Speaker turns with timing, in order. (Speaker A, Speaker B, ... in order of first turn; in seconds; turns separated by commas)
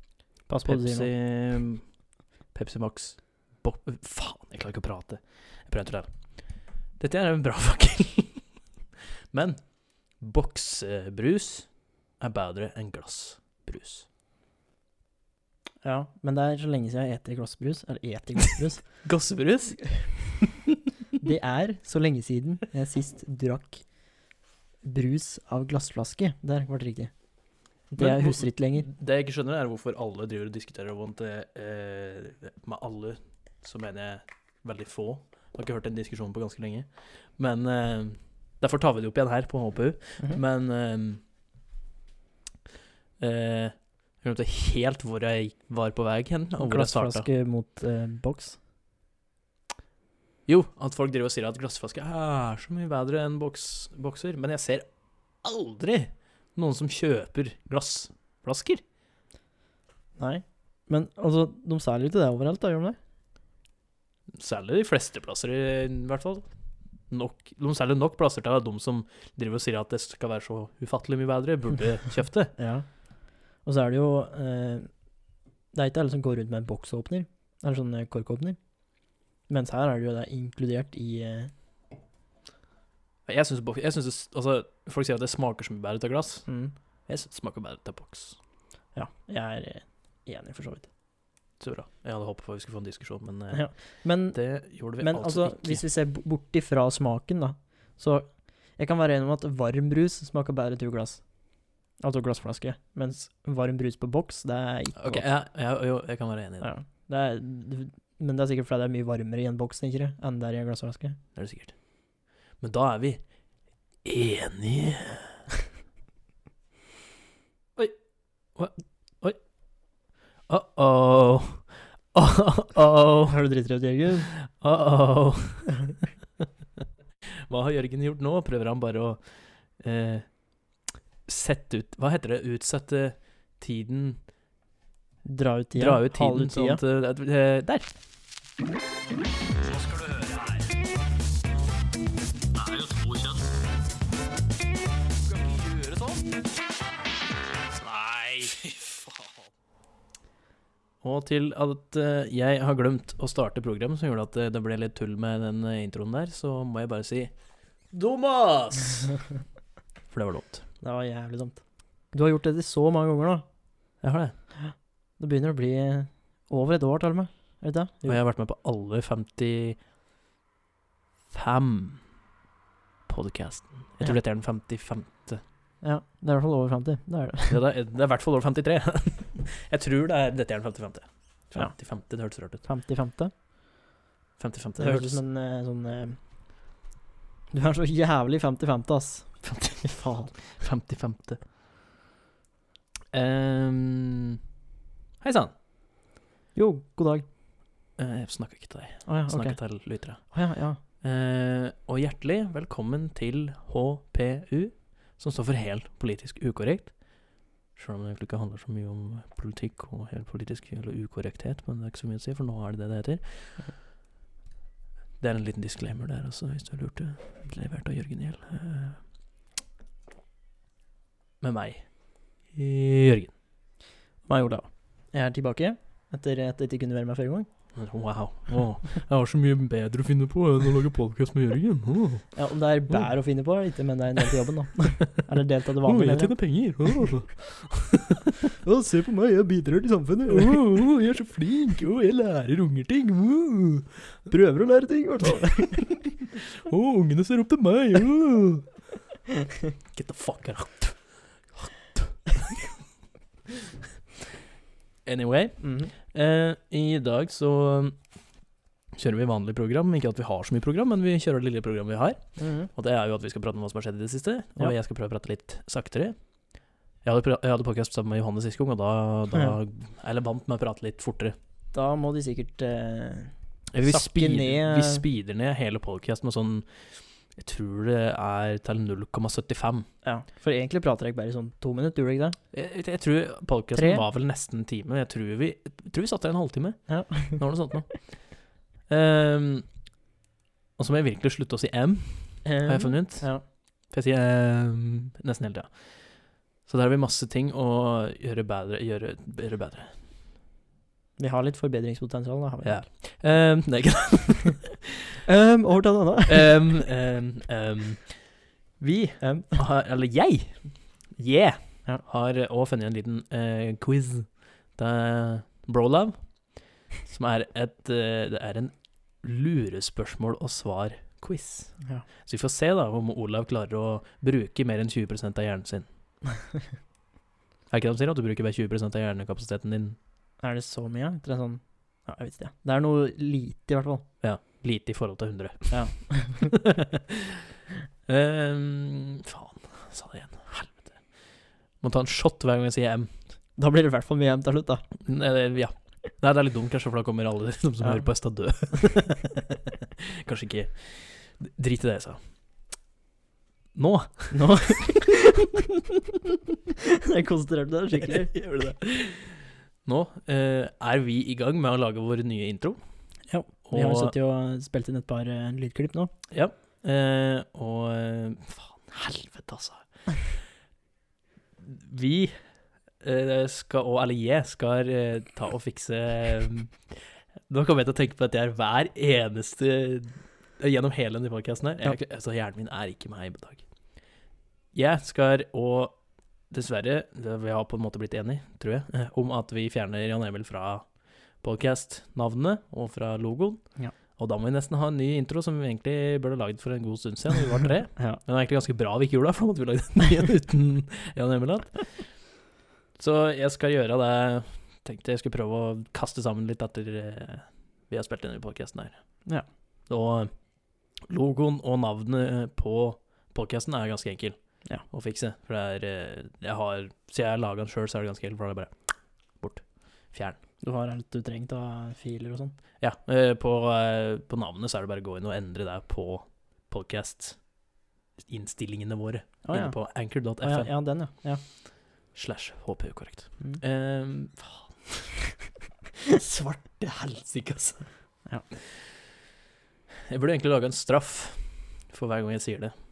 Speaker A: 0.5-1.1, Speaker B: 0.7-1.9, Speaker B: 2.5-6.1, Speaker B: 7.0-8.5, Speaker B: 9.3-14.1, Speaker A: 15.8-19.1, Speaker B: 19.0-20.4, Speaker A: 21.2-23.8, Speaker A: 24.8-27.1, Speaker A: 27.9-28.9, Speaker B: 28.0-41.2, Speaker B: 43.2-47.3, Speaker A: 46.6-48.6, Speaker B: 50.5-54.9, Speaker B: 55.4-58.8, Speaker A: 60.2-63.0, Speaker B: 64.4-66.5, Speaker B: 67.1-72.5, Speaker A: 72.6-72.9, Speaker A: 73.6-74.9, Speaker A: 75.7-78.6, Speaker A: 79.5-81.5, Speaker B: 83.3-86.5, Speaker A: 86.5-86.7, Speaker B: 87.1-88.4, Speaker A: 89.0-90.9, Speaker B: 91.6-95.8, Speaker A: 93.5-101.2, Speaker A: 102.0-105.3, Speaker B: 105.0-106.7, Speaker A: 106.6-111.2, Speaker B: 111.3-111.8, Speaker B: 112.6-113.2, Speaker B: 114.0-115.4, Speaker B: 118.5-119.4, Speaker B: 120.5-123.4, Speaker A: 123.3-124.3, Speaker B: 124.5-125.8, Speaker B: 127.5-129.2, Speaker B: 129.8-130.4, Speaker B: 131.3-134.2, Speaker A: 135.2-136.8, Speaker B: 135.8-137.9, Speaker B: 139.6-140.7, Speaker B: 142.6-143.5, Speaker B: 145.2-146.3, Speaker B: 147.7-149.3, Speaker B: 151.0-157.3, Speaker B: 157.9-159.1, Speaker B: 160.1-160.6, Speaker A: 160.8-161.6, Speaker A: 162.1-163.4, Speaker B: 164.0-164.3, Speaker A: 164.6-168.2, Speaker B: 168.1-169.8, Speaker B: 171.3-172.1, Speaker B: 173.1-175.4, Speaker A: 175.8-177.6, Speaker B: 177.5-182.6, Speaker A: 182.5-183.3, Speaker B: 184.4-185.2, Speaker A: 184.8-186.2, Speaker A: 187.5-190.3, Speaker B: 189.4-191.4, Speaker B: 193.1-194.4, Speaker B: 195.2-195.5, Speaker A: 196.6-197.3, Speaker B: 198.0-200.3, Speaker A: 199.1-200.8, Speaker B: 201.0-207.2, Speaker B: 207.7-213.7, Speaker B: 215.2-219.0, Speaker B: 221.4-221.9, Speaker B: 222.5-223.3, Speaker A: 224.3-227.5, Speaker B: 227.8-232.3, Speaker A: 232.3-237.1, Speaker B: 235.8-238.3, Speaker A: 238.5-240.6, Speaker B: 240.3-244.0, Speaker A: 244.3-246.1, Speaker B: 246.4-248.7, Speaker B: 249.9-252.7, Speaker B: 255.1-258.1, Speaker A: 255.6-255.9, Speaker B: 259.0-266.2, Speaker A: 262.4-262.7, Speaker B: 267.0-271.4, Speaker A: 271.7-273.3, Speaker B: 273.7-279.9, Speaker A: 273.8-275.0, Speaker A: 280.0-282.4, Speaker B: 282.5-288.2, Speaker A: 283.7-284.0, Speaker A: 286.9-287.5, Speaker B: 288.9-289.7, Speaker B: 290.8-300.0, Speaker A: 292.4-293.4, Speaker A: 301.2-302.9, Speaker B: 302.6-305.1, Speaker A: 305.2-306.6, Speaker B: 306.3-325.9, Speaker A: 309.2-309.5, Speaker A: 321.8-322.1, Speaker B: 327.7-330.0, Speaker A: 330.4-334.0, Speaker B: 334.2-337.4, Speaker A: 335.7-336.6, Speaker B: 338.1-341.3, Speaker B: 341.8-343.2, Speaker A: 343.6-344.8, Speaker B: 345.0-352.2, Speaker A: 347.8-348.1, Speaker B: 353.8-354.5, Speaker A: 354.3-355.6, Speaker A: 356.7-358.4, Speaker B: 358.0-362.8, Speaker A: 363.3-366.1, Speaker B: 363.7-364.1, Speaker B: 366.3-369.8, Speaker B: 371.6-372.4, Speaker B: 373.0-383.7, Speaker B: 384.7-386.0, Speaker B: 386.5-402.1, Speaker B: 403.0-409.0, Speaker B: 409.9-410.3, Speaker B: 411.1-418.7, Speaker B: 419.4-420.4, Speaker A: 420.6-422.6, Speaker B: 422.8-427.5, Speaker B: 428.2-430.7, Speaker A: 429.4-431.4, Speaker B: 432.1-435.2, Speaker B: 436.1-437.9, Speaker B: 440.1-442.7